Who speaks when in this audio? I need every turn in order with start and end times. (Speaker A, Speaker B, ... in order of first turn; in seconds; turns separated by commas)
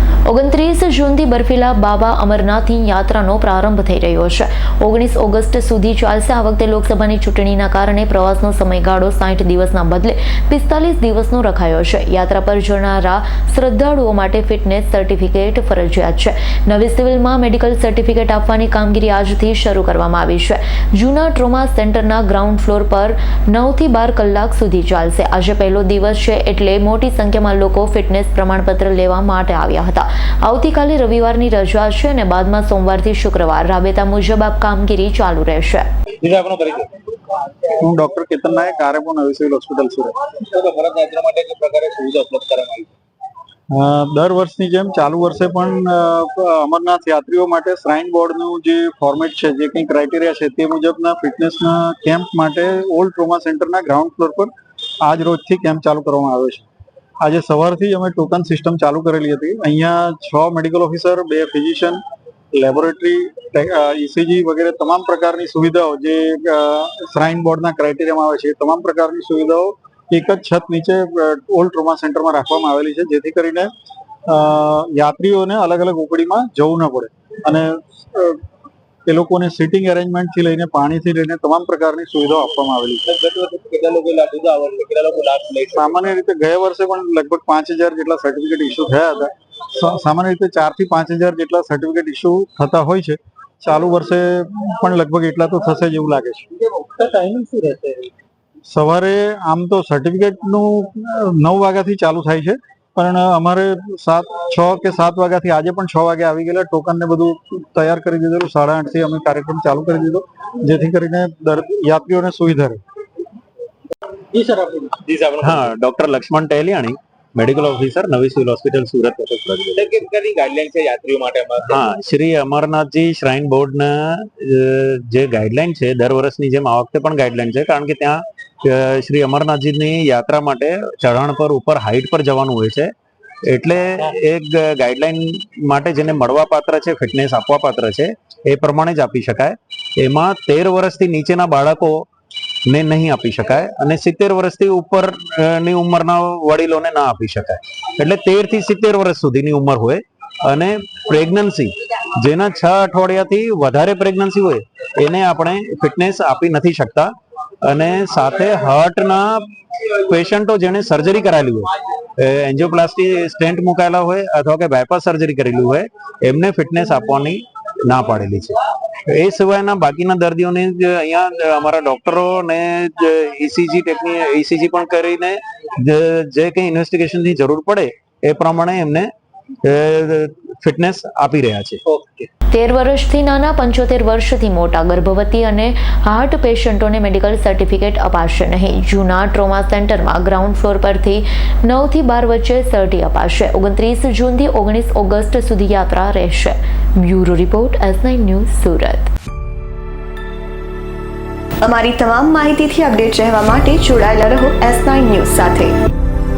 Speaker A: 0.3-35.9, Speaker B: 36.2-36.9, Speaker C: 37.8-40.1, Speaker B: 40.4-42.9, Speaker C: 43.7-54.5, Speaker C: 55.0-56.7, Speaker C: 57.2-62.0, Speaker C: 62.5-73.7, Speaker C: 74.3-78.4, Speaker C: 79.1-83.0, Speaker B: 83.1-86.0, Speaker C: 85.7-96.5, Speaker B: 96.8-98.1, Speaker C: 98.7-112.8, Speaker B: 114.3-115.7, Speaker D: 115.4-120.1, Speaker B: 119.8-121.8, Speaker D: 121.6-132.9, Speaker D: 133.5-142.1, Speaker D: 142.7-159.5, Speaker D: 160.1-179.1, Speaker D: 179.7-181.8, Speaker B: 181.9-182.3, Speaker A: 182.5-199.1, Speaker E: 201.6-205.8